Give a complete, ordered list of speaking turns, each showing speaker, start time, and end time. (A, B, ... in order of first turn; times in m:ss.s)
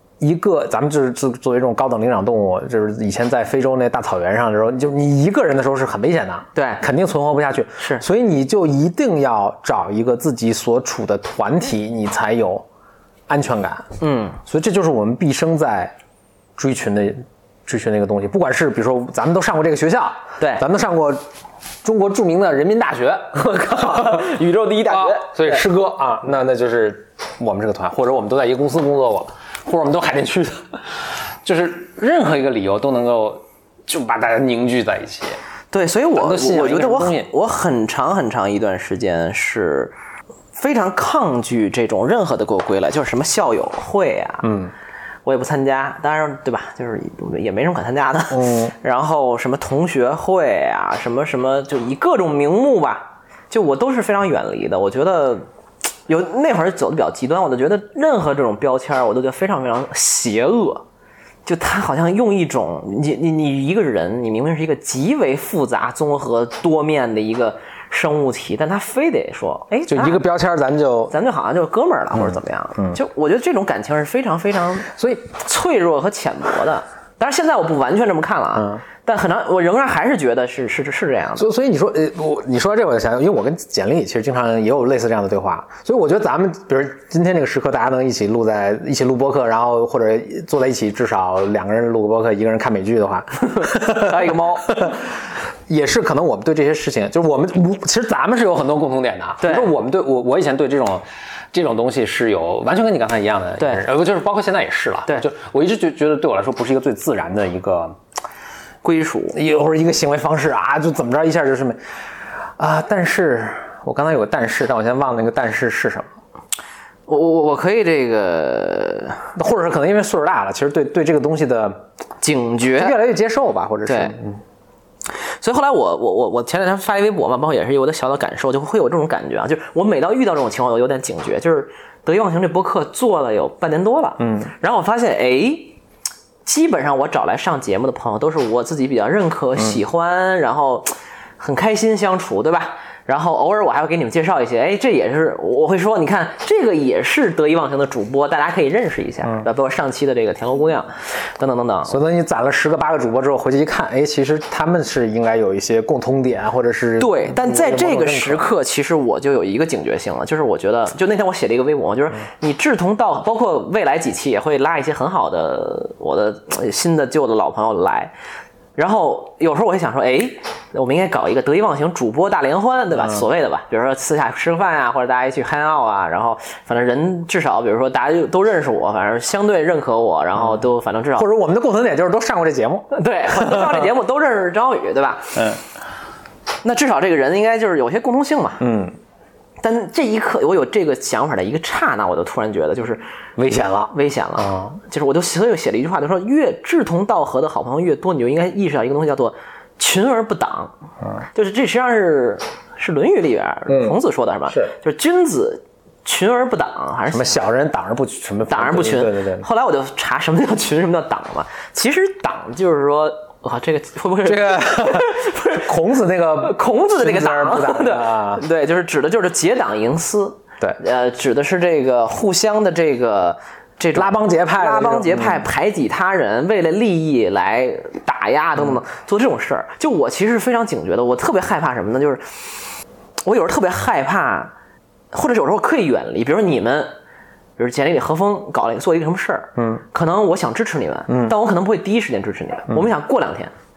0:00.2-0:12.6 A
0:06.5-0:06.8 B
0:07.8-0:08.0 B
0:13.3-0:13.8 A
0:14.0-0:14.4 B
0:14.4-0:15.9 A
0:16.6-0:21.2 A
0:20.4-0:20.6 B
0:21.8-0:24.3 A
0:23.3-0:25.6 B
0:24.9-0:30.8 A
0:31.4-0:35.4 A
0:35.7-0:39.9 B
0:36.2-0:37.3 A
0:40.6-0:44.5 B
0:44.4-0:44.7 A
0:45.2-0:55.4 B
0:48.3-0:48.7 A
0:56.1-1:00.8 B
1:01.4-1:10.2 B
1:09.9-1:11.1 A
1:11.1-1:21.5 B
1:14.9-1:15.2 A
1:18.6-1:18.8 A
1:21.4-1:35.1 A
1:33.4-1:34.9 B
1:35.7-1:48.0 A
1:39.4-1:39.7 B
1:48.8-1:49.4 B
1:49.3-1:51.8 A
1:52.6-1:56.1 A
1:57.1-1:59.2 B
1:59.4-2:01.8 A
2:02.2-2:03.0 B
2:02.8-2:04.4 A
2:03.8-2:04.2 B
2:05.1-2:15.8 B
2:14.2-2:14.5 A
2:16.4-2:32.0 B
2:31.9-2:38.5 A
2:37.0-2:48.1 B
2:48.8-3:01.3 B
3:01.2-3:03.9 A
3:02.9-3:05.6 B
3:06.6-3:08.6 B
3:08.6-3:08.9 A
3:09.6-3:13.0 B
3:13.4-3:14.8 A
3:13.9-3:20.7 B
3:21.3-3:27.4 B
3:23.7-3:24.0 A
3:27.1-3:29.4 A
3:28.5-3:35.7 B
3:34.2-3:38.4 A
3:36.4-3:52.6 B
3:43.9-3:45.4 A
3:53.2-3:54.5 B
3:55.1-3:56.9 B
3:57.6-4:03.5 B
3:59.6-3:59.8 A
4:01.1-4:01.3 A